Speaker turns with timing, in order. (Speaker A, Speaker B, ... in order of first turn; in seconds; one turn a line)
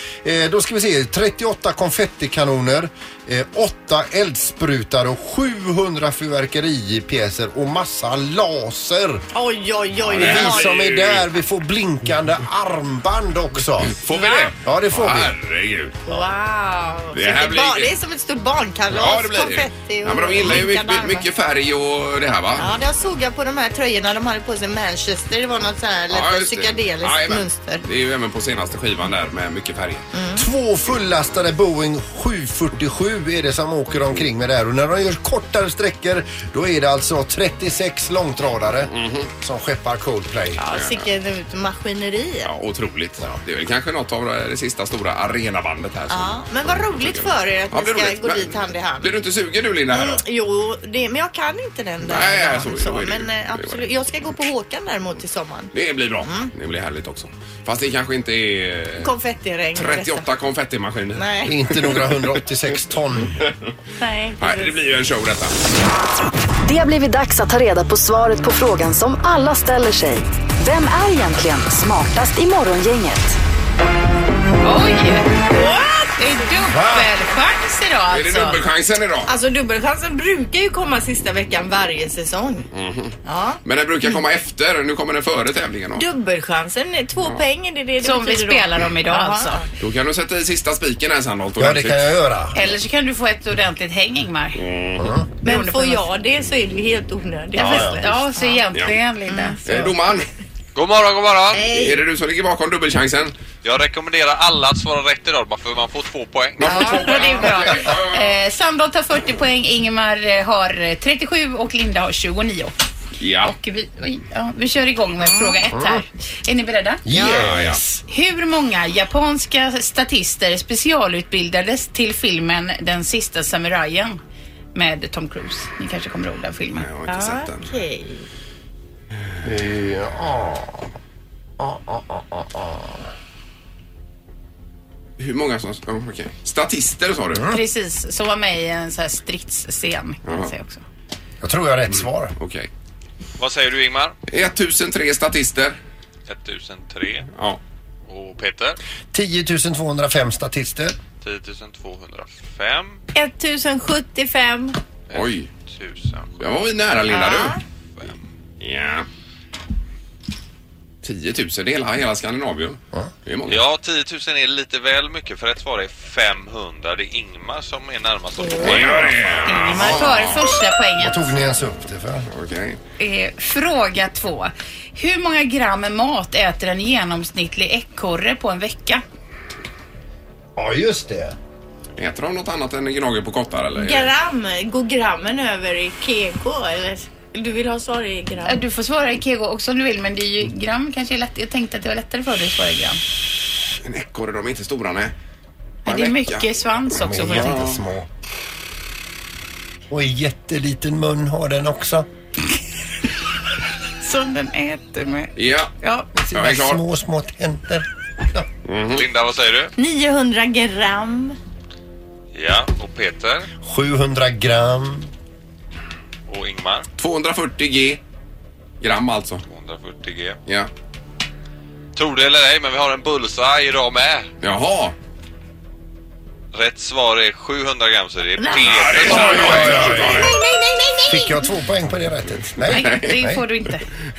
Speaker A: 0.2-9.2
Speaker B: 9.3-10.7
Speaker C: 10.1-11.3
Speaker A: 10.1-14.0
Speaker C: 13.9-16.0
Speaker A: 14.6-15.3
Speaker B: 16.1-21.3
Speaker C: 17.1-17.9
Speaker C: 18.9-22.8
Speaker B: 22.6-27.8
Speaker C: 26.1-30.1
Speaker B: 30.1-30.4
Speaker A: 30.3-40.6
Speaker C: 38.9-39.3
Speaker B: 40.6-42.5
Speaker C: 40.7-41.1
Speaker C: 42.4-50.2
Speaker B: 46.1-49.2
Speaker B: 49.9-56.5
Speaker C: 52.0-54.0
Speaker C: 55.7-59.1
Speaker B: 59.0-60.2
Speaker C: 59.7-62.3
Speaker B: 61.1-61.6
Speaker A: 61.4-63.5
Speaker B: 64.0-64.9
Speaker C: 64.4-65.5
Speaker D: 66.6-73.4
Speaker E: 74.6-78.6
Speaker B: 75.5-76.1
Speaker A: 76.7-77.1
Speaker C: 78.1-79.3
Speaker B: 79.2-82.7
Speaker C: 82.7-86.1
Speaker B: 83.2-84.2
Speaker B: 86.0-89.7
Speaker E: 88.0-89.5
Speaker C: 89.8-92.2
Speaker A: 91.6-92.6
Speaker E: 92.5-94.6
Speaker C: 94.5-95.1
Speaker A: 95.0-95.3
Speaker B: 95.4-98.6
Speaker E: 95.4-96.0
Speaker E: 97.5-99.6
Speaker A: 97.6-98.0
Speaker B: 99.3-99.9
Speaker C: 99.6-100.3
Speaker F: 100.7-101.7
Speaker B: 101.5-102.0
Speaker C: 101.7-103.3
Speaker F: 103.6-106.7
Speaker C: 106.6-108.3
Speaker E: 106.6-112.7
Speaker B: 106.7-107.6
Speaker C: 113.2-113.5
Speaker E: 113.4-117.1
Speaker B: 115.2-115.7
Speaker A: 115.7-116.0
Speaker A: 117.0-118.0
Speaker B: 117.1-117.5
Speaker C: 117.3-117.8
Speaker E: 118.1-124.2
Speaker E: 124.7-126.9
Speaker C: 126.8-127.6
Speaker B: 127.1-128.2
Speaker A: 129.4-130.9
Speaker A: 131.6-133.0
Speaker C: 135.2-137.4
Speaker A: 137.3-137.6
Speaker E: 137.5-140.8
Speaker A: 141.4-142.3
Speaker C: 142.4-142.7
Speaker F: 143.4-144.1
Speaker C: 144.3-145.8
Speaker F: 146.3-147.3
Speaker C: 147.3-147.6
Speaker F: 148.1-148.8
Speaker A: 149.1-151.0
Speaker F: 151.2-153.0
Speaker B: 153.1-154.8
Speaker F: 155.1-156.5
Speaker C: 155.1-155.5
Speaker C: 156.4-157.6
Speaker B: 157.1-157.6
Speaker C: 158.6-159.1
Speaker C: 161.0-163.7
Speaker F: 163.5-169.4
Speaker B: 168.4-169.1
Speaker C: 168.6-170.5
Speaker E: 169.4-171.4
Speaker B: 169.7-170.3
Speaker A: 171.0-172.3
Speaker C: 172.3-172.8
Speaker E: 173.0-179.0
Speaker A: 180.6-181.3
Speaker C: 182.0-184.1
Speaker B: 183.8-188.6
Speaker E: 188.4-193.0
Speaker C: 193.8-195.1
Speaker E: 195.8-197.6
Speaker C: 195.8-196.5
Speaker A: 196.9-198.1
Speaker C: 197.2-197.8
Speaker A: 199.9-202.1
Speaker E: 204.0-206.1
Speaker C: 205.3-205.7
Speaker A: 206.1-208.5
Speaker C: 206.3-206.8
Speaker C: 208.6-209.1
Speaker F: 208.9-209.7
Speaker B: 209.8-211.4
Speaker F: 212.3-213.5
Speaker A: 213.6-215.1
Speaker F: 216.3-216.9
Speaker C: 217.0-218.0
Speaker C: 218.8-219.4
Speaker F: 219.4-220.4
Speaker F: 221.9-224.3
Speaker C: 224.4-224.9
Speaker F: 226.5-229.9
Speaker B: 228.4-231.4
Speaker C: 228.6-230.4
Speaker A: 229.1-230.3
Speaker A: 231.0-233.4
Speaker C: 232.6-233.2
Speaker E: 232.7-233.8